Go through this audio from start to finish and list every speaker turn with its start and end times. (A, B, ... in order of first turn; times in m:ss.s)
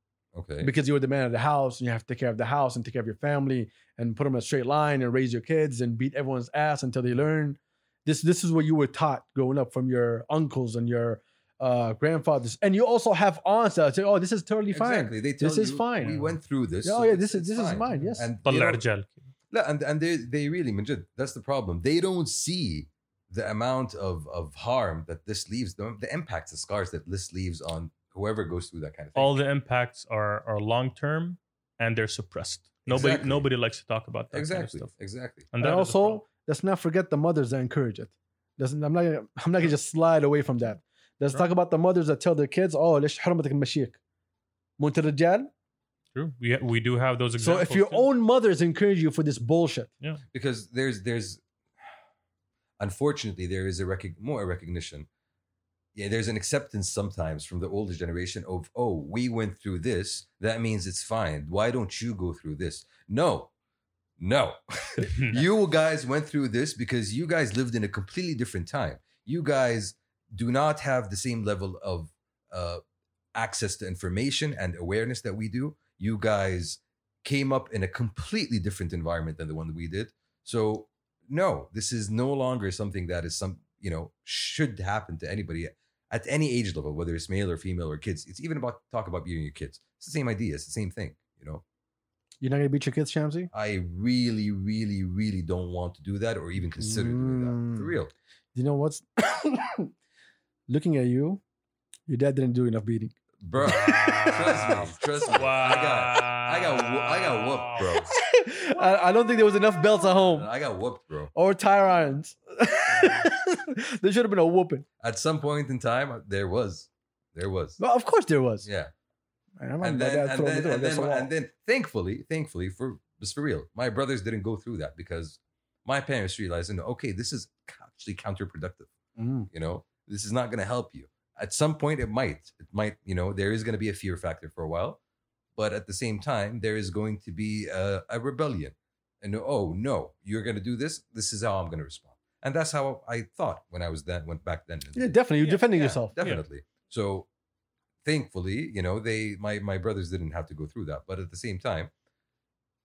0:00.3-0:00.7 A
0:00.6-0:18.3 B
0:14.7-0:18.8 A
0:17.9-0:19.2 C
0:19.5-0:29.4 A
0:29.1-0:34.9 C
0:32.9-0:33.5 A
0:34.3-0:35.5 A
0:35.5-0:36.2 C
0:35.6-0:44.0 B
0:44.8-0:45.5 B
0:46.1-0:48.1 C
0:47.4-0:49.9 B
0:50.3-0:51.4 A
0:52.8-0:55.1 A
0:55.9-1:03.5 A
1:04.2-1:12.8 A
1:13.3-1:31.6 A
1:32.4-1:33.5 B
1:33.5-1:38.1 A
1:36.8-1:37.9 B
1:38.5-1:39.9 B
1:40.7-1:41.4 B
1:42.1-1:45.3 B
1:43.4-1:48.1 A
1:43.6-1:47.9 C
1:48.1-1:50.5 B
1:50.1-1:51.3 A
1:51.3-1:54.8 B
1:52.9-1:53.3 C
1:55.0-1:57.8 A
1:57.8-1:58.7 B
1:58.6-1:58.9 A
1:59.6-2:01.3 B
1:59.8-2:08.9 A
2:09.2-2:09.5 B
2:09.5-2:15.0 A
2:15.6-2:27.3 A
2:24.9-2:26.1 B
2:25.4-2:26.4 C
2:28.0-2:31.9 A